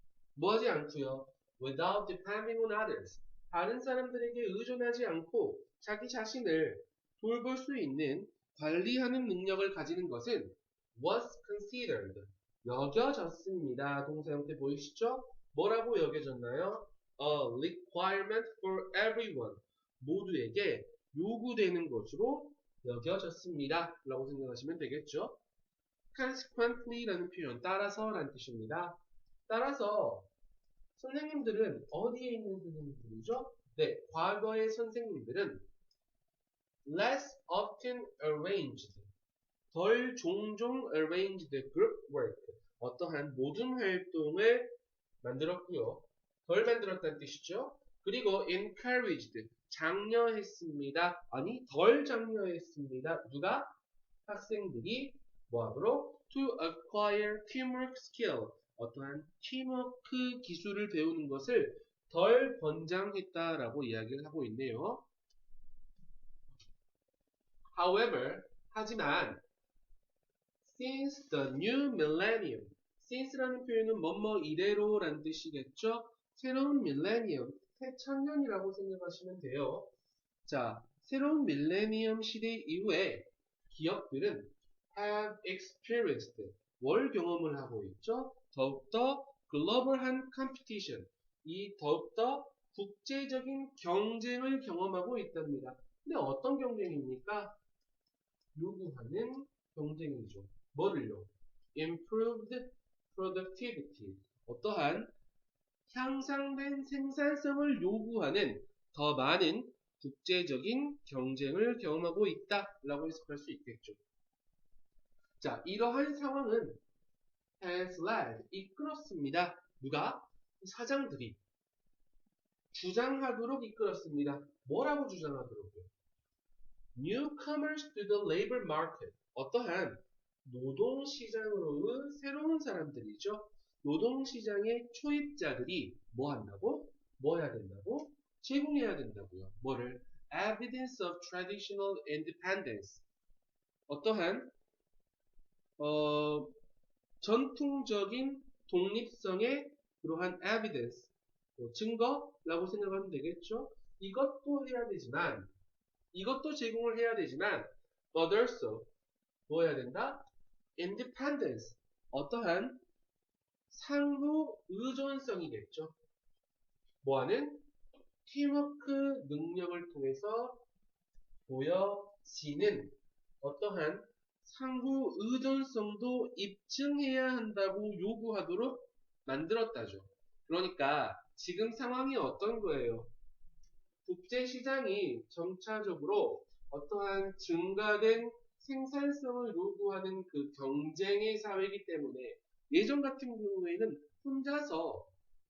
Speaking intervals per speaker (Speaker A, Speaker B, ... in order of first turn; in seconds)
Speaker A: 0.3-25.4, 26.1-30.3, 30.9-35.7, 36.8-39.1, 39.7-44.7, 45.2-53.7, 54.2-65.0, 67.7-69.4, 70.6-79.9, 80.4-97.6, 98.5-105.1, 105.9-114.0, 115.4-116.8, 117.6-121.4, 122.7-125.9, 126.9-143.1, 143.9-144.5, 145.8-146.5, 147.2-155.5, 156.1-158.9, 159.5-162.8, 163.7-165.9, 167.0-167.7, 168.2-170.7, 171.5-183.1, 184.0-195.1